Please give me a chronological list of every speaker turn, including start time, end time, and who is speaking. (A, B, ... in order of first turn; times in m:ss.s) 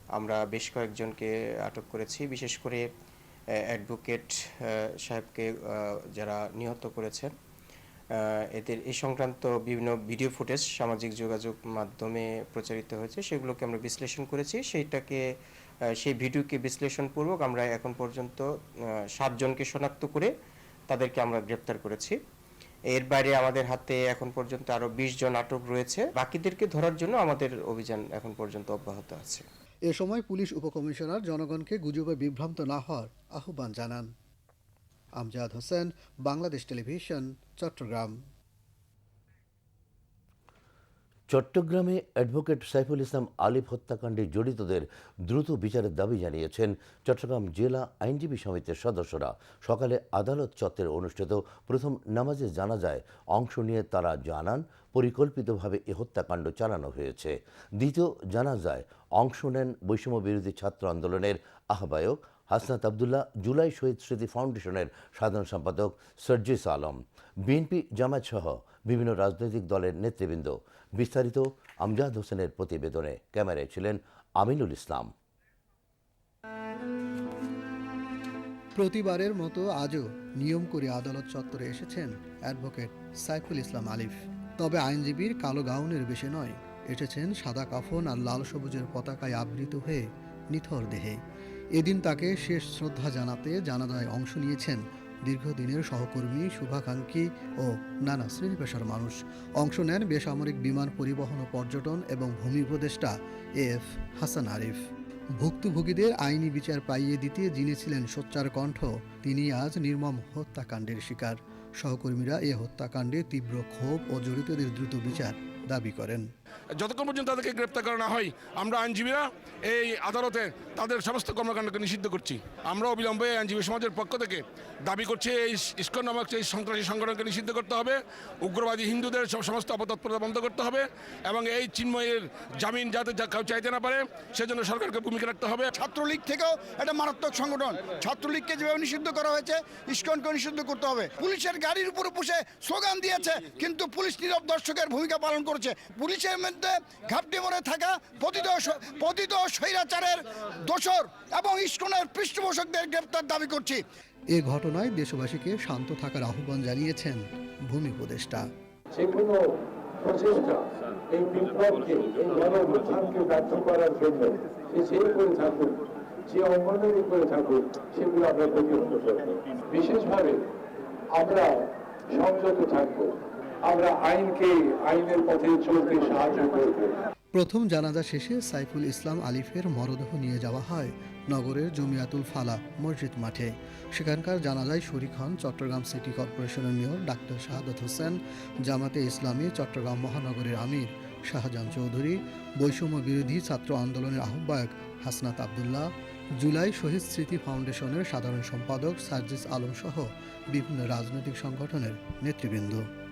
0:00.2-0:02.9 A
0:03.7-0:07.3 A
0:08.1-0:15.2 A
0:16.0-0:20.3 A
0:20.9-0:22.2 A
0:22.9-0:29.4 A
0:29.9-0:34.1 B
0:35.2-0:38.2 B
0:41.3-1:15.1 C
1:18.7-1:31.2 B
1:31.8-1:44.8 B
1:45.4-1:56.3 B
1:56.8-2:15.7 D
2:15.7-2:33.8 E
2:34.3-2:38.5 B
2:38.9-2:50.4 F
2:51.2-2:51.6 F
2:52.1-2:53.1 F
2:53.6-2:57.0 F
2:57.3-3:22.8 B